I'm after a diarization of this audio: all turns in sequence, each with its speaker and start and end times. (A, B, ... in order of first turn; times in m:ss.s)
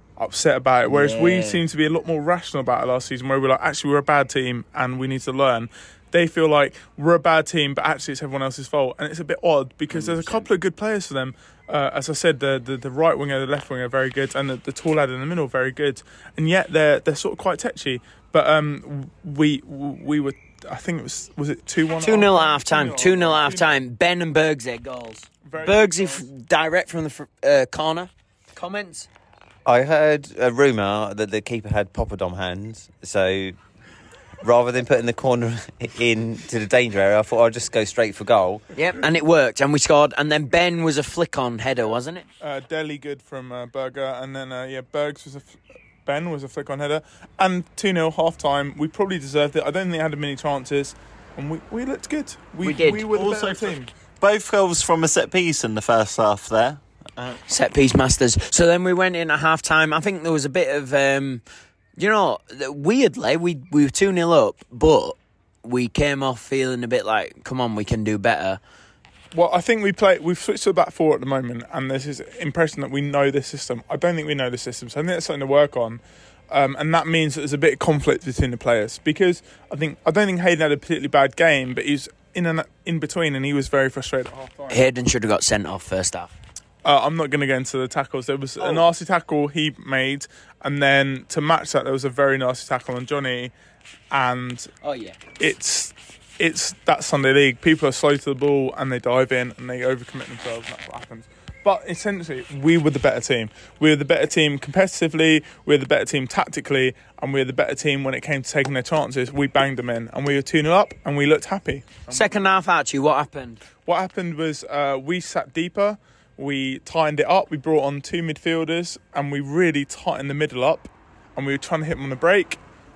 0:00.2-0:23.8 A
0:00.9-0:01.6 B
0:09.9-0:10.4 B
0:22.0-0:29.1 B
0:25.4-0:26.3 A
0:29.6-0:33.6 C
0:34.4-0:38.6 C
0:38.8-0:42.3 B
0:42.4-0:53.9 A
0:52.6-0:53.1 B
0:53.0-0:57.4 D
0:57.5-1:01.4 B
1:02.0-1:08.6 B
1:09.3-1:24.8 A
1:24.7-1:26.3 B
1:26.8-1:33.5 A
1:28.6-1:28.8 D
1:34.1-1:34.7 A
1:34.8-1:35.2 B
1:35.4-1:52.4 A
1:52.1-1:53.6 B
1:53.8-2:02.6 A